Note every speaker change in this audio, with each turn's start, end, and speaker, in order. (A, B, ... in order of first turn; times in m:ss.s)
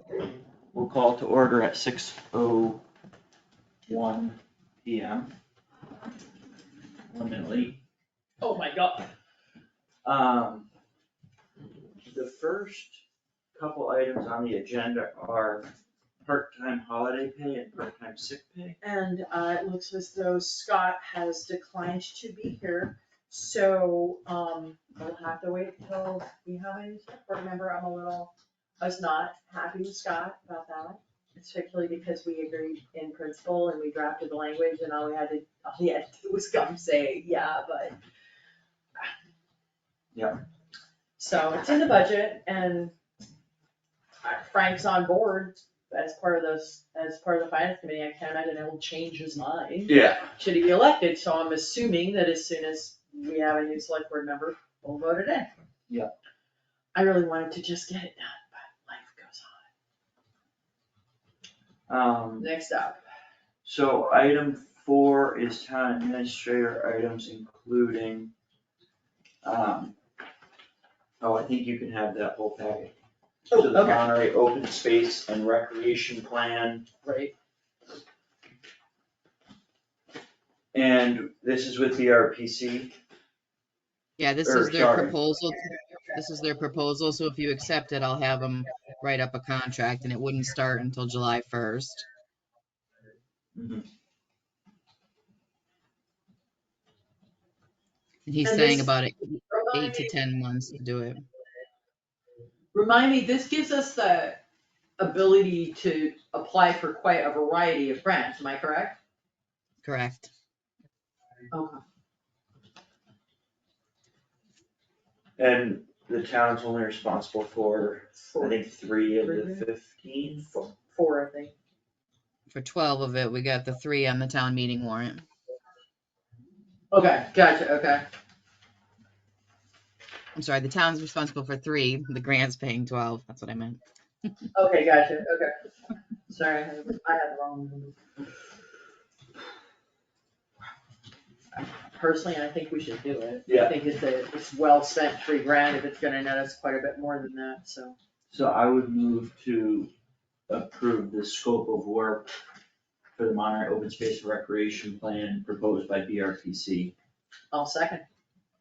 0:00.7-0:02.8 A
0:03.9-0:05.3 A
0:07.1-0:07.8 A
0:08.4-0:09.1 B
0:10.0-0:10.7 A
0:12.0-0:13.0 A
0:13.5-0:15.7 A
0:16.2-0:18.8 A
0:18.8-0:38.0 B
0:41.2-0:42.9 B
0:44.2-0:55.5 B
0:49.9-0:50.3 A
0:56.9-0:59.7 B
1:01.9-1:02.5 A
1:02.4-1:03.0 B
1:03.6-1:08.3 A
1:09.4-1:09.9 A
1:11.2-1:12.9 A
1:13.5-1:14.0 B
1:13.5-1:16.8 A
1:17.0-1:17.3 B
1:20.7-1:22.9 A
1:24.2-1:32.0 C
1:24.4-1:25.1 A
1:33.5-1:33.8 A
1:38.2-1:41.2 C
1:38.4-1:38.9 B
1:39.5-1:40.1 B
1:42.7-1:44.4 B
1:45.0-1:49.0 B
1:49.8-1:50.3 C
1:51.5-1:51.8 B
1:55.4-2:00.5 A
1:58.2-1:59.6 B
2:00.4-2:01.5 B
2:02.5-2:05.2 C
2:06.9-2:08.0 B
2:10.3-2:13.8 C
2:14.5-2:15.5 B
2:16.3-2:18.0 B
2:21.6-2:28.0 B
2:23.5-2:23.7 A
2:28.3-2:29.9 A
2:30.5-2:32.3 A
2:33.1-2:36.9 A
2:37.5-2:38.0 B